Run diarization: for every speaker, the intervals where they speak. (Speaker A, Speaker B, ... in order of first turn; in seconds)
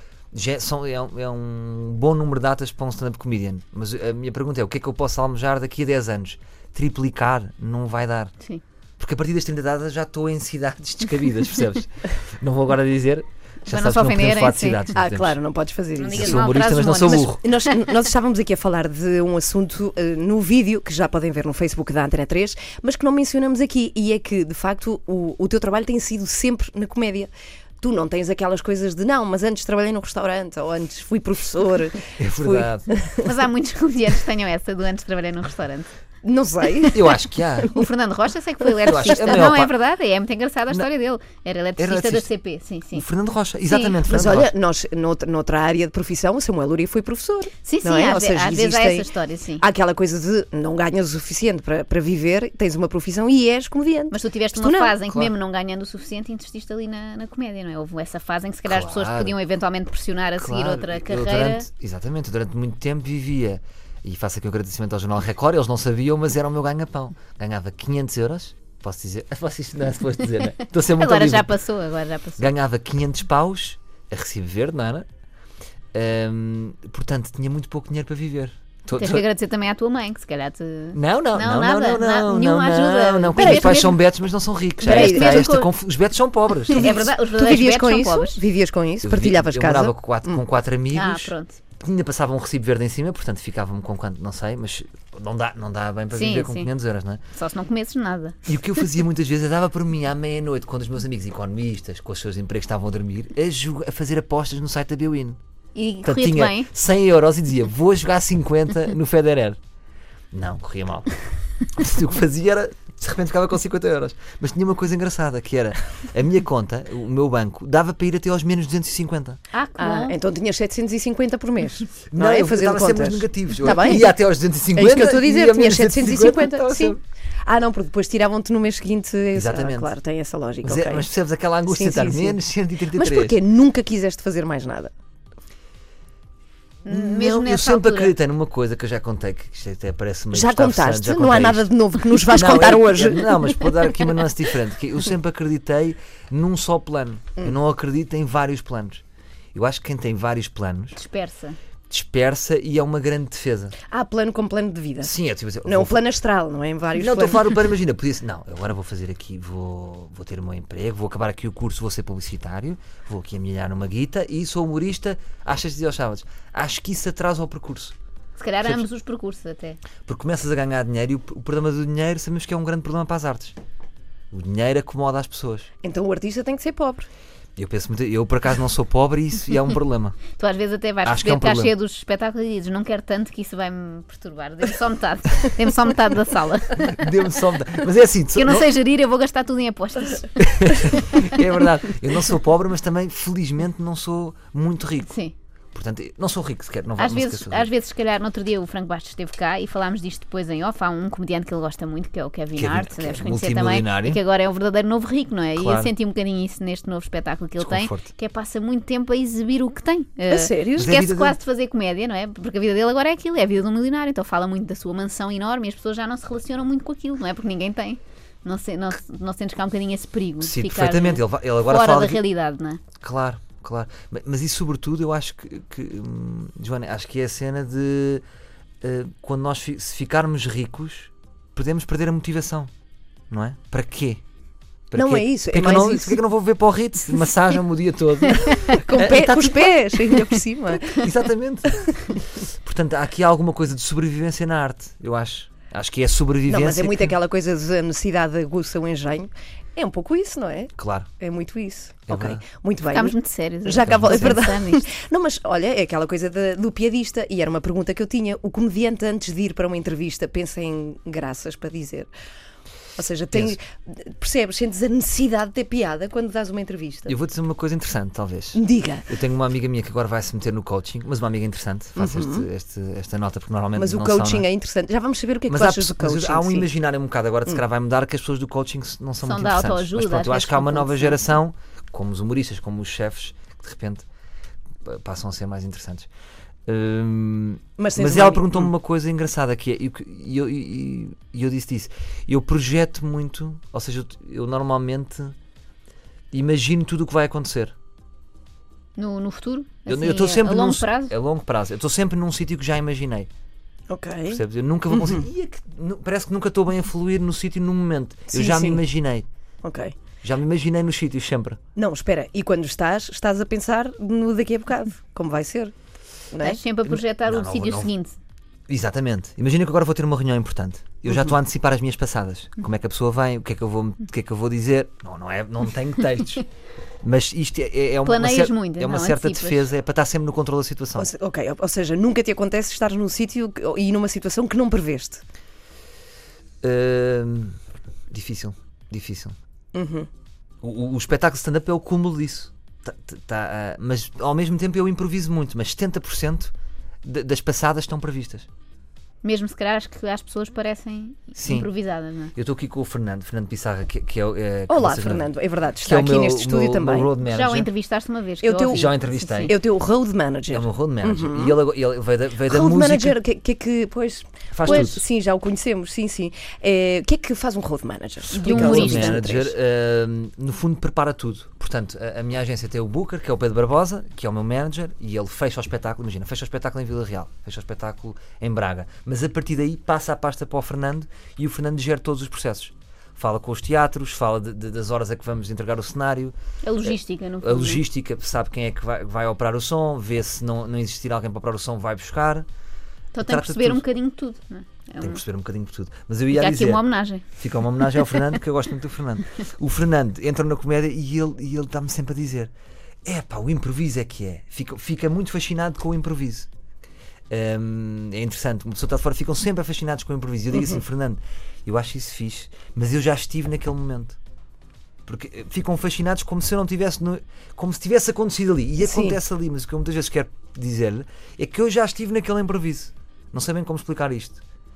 Speaker A: 0.3-8.3, 9.0-15.4, 16.1-17.4, 32.2-32.9, 36.9-37.8, 38.8-39.8, 41.8-42.3, 42.9-44.5, 55.1-55.3, 58.7-59.4, 60.4-71.5, 72.4-75.1, 75.9-79.3, 80.9-87.0, 89.0-97.2, 98.5-105.4, 106.0-109.6, 110.3-111.1, 111.7-119.4, 122.1-127.0, 129.3-129.9, 130.6-133.4, 136.9-149.0, 149.5-151.0, 151.9-153.8, 155.0-156.0, 157.0-167.9, 170.1-173.6, 174.3-175.7, 177.6-180.2, 181.1-181.7, 186.8-188.7, 190.4-195.1, 195.7-197.7, 202.6-204.2, 205.6-205.9, 207.6-208.1, 210.8-211.4, 220.4-222.2, 223.0-228.2, 228.8-232.7, 233.3-234.2, 234.9-239.8, 240.8-247.2, 250.8-251.1, 252.1-252.4, 253.8-254.4, 263.3-263.6, 267.1-274.5, 275.5-284.1, 284.8-286.1, 286.7-295.4, 296.3-297.8, 299.9-303.3, 304.3-309.3, 310.2-311.6, 316.9-317.9, 318.7-326.4, 327.0-331.1, 336.6-337.6, 338.1-339.4, 340.6-346.5, 347.0-348.5, 351.4-351.7, 352.4-355.3, 355.8-357.7, 358.7-359.6, 360.5-363.2, 364.5-365.0, 368.4-392.5, 393.2-393.8, 395.0-396.8, 397.4-402.5, 403.1-406.5, 407.3-414.2, 415.1-424.4
Speaker B: 13.7-14.9, 16.0-17.4, 33.2-35.9, 37.7-43.1, 43.6-44.0, 47.6-49.6, 54.1-61.7, 70.9-72.5, 78.9-84.0, 84.8-85.7, 86.7-88.4, 90.9-91.6, 96.1-96.7, 97.4-98.5, 105.8-106.7, 119.5-120.2, 136.8-138.1, 151.0-151.6, 168.4-169.8, 180.3-187.1, 188.4-191.4, 195.1-195.3, 197.0-222.8, 252.9-254.9, 279.2-281.2, 299.0-301.1, 316.4-318.2, 328.1-329.7, 349.2-352.3, 357.2-359.6, 368.3-369.2, 386.6-387.8, 393.1-395.2, 396.3-397.2
Speaker C: 14.9-16.5, 17.1-33.2, 36.2-37.1, 44.0-49.1, 49.6-55.0, 83.4-83.8, 84.8-85.4, 86.7-90.4, 119.8-124.2, 124.7-131.1, 131.7-132.4, 132.9-134.9, 140.3-143.4, 153.9-157.5, 175.8-177.1, 210.3-211.0, 235.0-236.2, 238.5-241.0, 246.5-262.1, 263.0-267.1, 268.5-269.1, 272.0-272.5, 273.8-276.7, 287.8-288.7, 303.9-305.3, 308.3-308.8, 309.6-309.9, 311.8-315.7, 316.3-316.6, 331.0-335.2, 339.7-340.1, 354.7-357.1, 358.4-358.9, 359.5-361.6, 362.5-369.5, 410.6-410.8, 418.8-419.2